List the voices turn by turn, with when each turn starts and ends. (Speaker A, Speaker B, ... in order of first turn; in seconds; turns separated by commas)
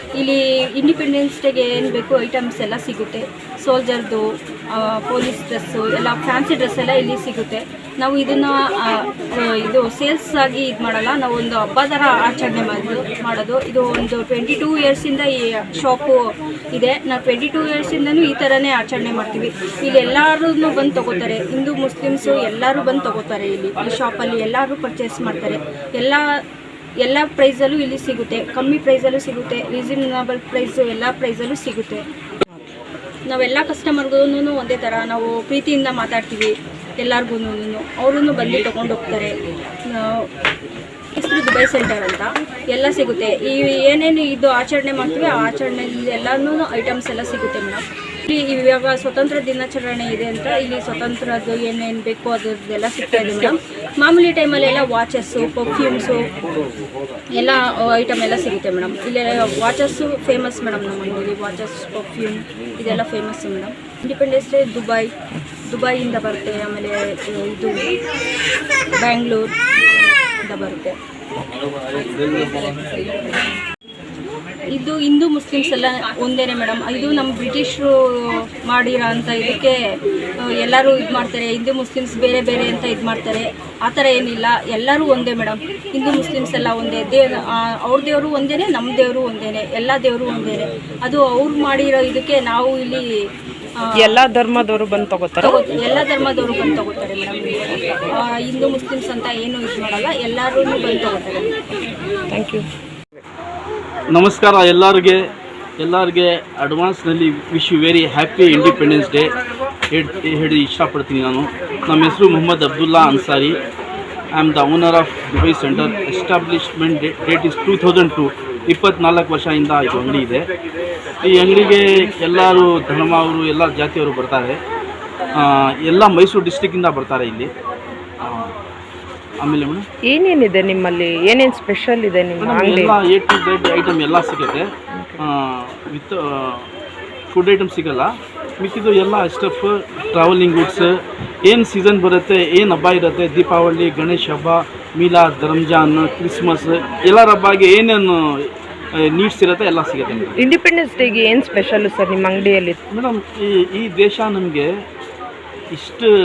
Speaker A: 0.1-26.2, Speaker A: 27.0-32.0, Speaker A: 33.2-40.3, Speaker A: 41.1-56.2, Speaker A: 57.3-65.1, Speaker A: 65.7-67.9, Speaker A: 68.9-69.5, Speaker A: 70.4-71.0, Speaker A: 72.0-73.3, Speaker A: 74.7-79.8, Speaker A: 80.4-93.0, Speaker B: 94.0-95.6, Speaker A: 95.4-101.6, Speaker B: 102.3-102.6, Speaker C: 104.1-105.2, Speaker C: 105.8-109.3, Speaker C: 109.9-113.6, Speaker C: 114.3-120.5, Speaker C: 121.2-124.6, Speaker C: 125.3-127.5, Speaker C: 128.2-128.5, Speaker C: 129.4-129.8, Speaker B: 130.1-133.0, Speaker C: 132.4-134.7, Speaker B: 135.0-135.2, Speaker C: 135.2-136.7, Speaker C: 137.3-150.4, Speaker B: 150.4-152.8, Speaker C: 152.9-154.7, Speaker C: 155.7-156.1